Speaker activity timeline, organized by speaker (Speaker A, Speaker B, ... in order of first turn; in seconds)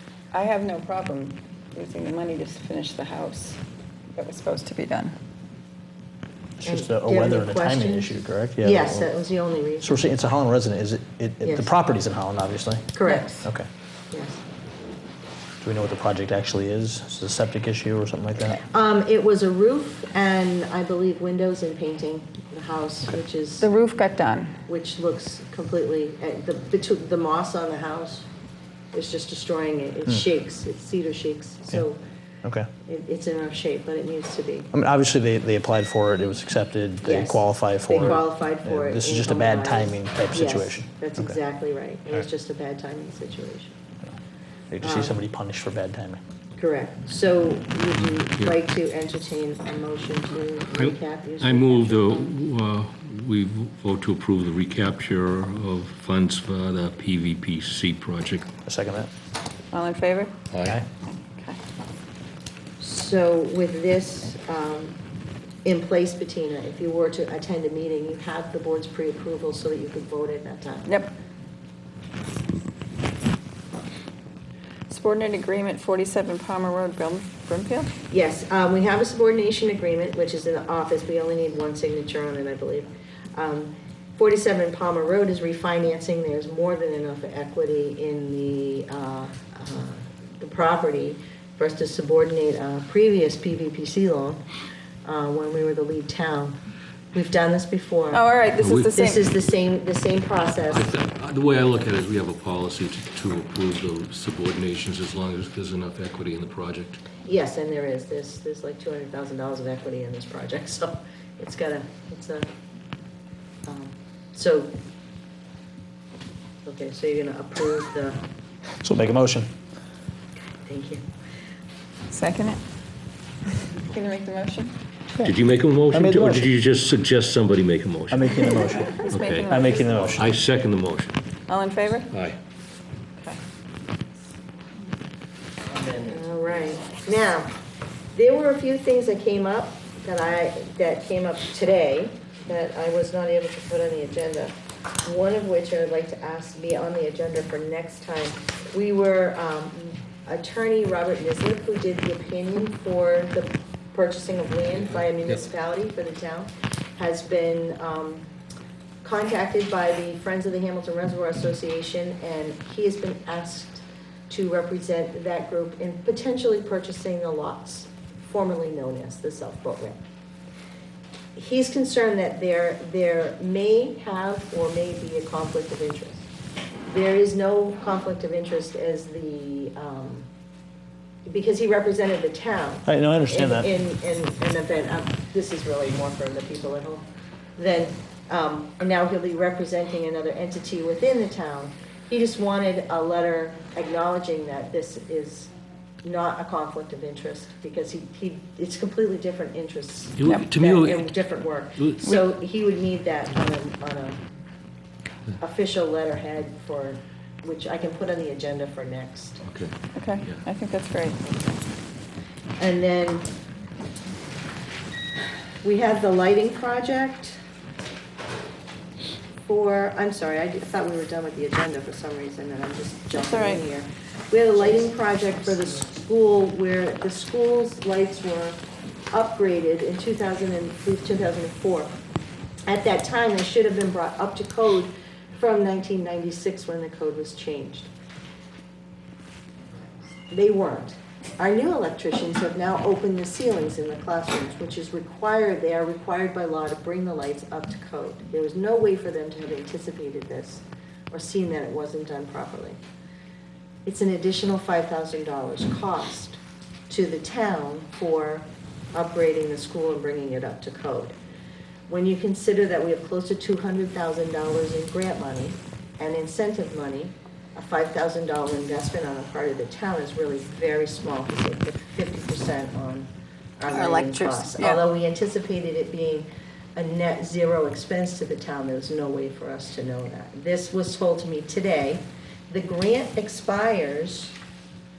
Speaker A: 0.3-3.6, 4.2-5.2, 23.6-24.6, 59.7-60.4, 61.0-61.6, 70.9-71.1, 74.9-77.9, 98.1-99.2, 122.1-122.6, 123.7-124.8, 128.9-130.2, 131.5-132.1, 209.9-211.4, 223.2-223.7, 273.7-274.8
Speaker B: 6.6-9.2, 9.8-13.7, 15.6-18.6, 32.4-32.7, 34.7-41.4, 44.7-46.2, 58.7-59.1, 118.8-119.5, 125.9-126.5, 128.1-130.3, 182.8-183.7
Speaker C: 6.6-8.1, 8.6-10.0, 11.4-11.7, 12.9-13.5, 14.1-14.4, 18.5-23.7, 24.7-28.3, 28.9-32.0, 32.8-34.7, 37.0-43.8, 44.8-45.2, 46.6-52.3, 62.8-65.0, 65.7-70.9, 78.1-94.4, 95.0-96.6, 97.1-98.2, 98.7-100.9, 107.2-112.5, 113.7-114.7, 116.7-118.2, 120.6-121.0, 136.0-137.5, 138.1-158.3, 159.0-170.0, 171.4-176.3, 176.9-180.3, 181.3-187.1, 187.6-195.5, 196.0-204.2, 205.4-209.4, 212.6-213.3, 215.6-217.4, 219.5-228.6, 229.1-231.9, 232.7-237.9, 240.3-252.8, 253.9-261.2, 261.9-284.4
Speaker D: 48.0-48.5, 50.7-58.5, 60.5-60.8, 98.6-98.9, 100.6-107.0, 125.2-131.2, 132.1-132.4, 200.2-201.2, 209.4-209.7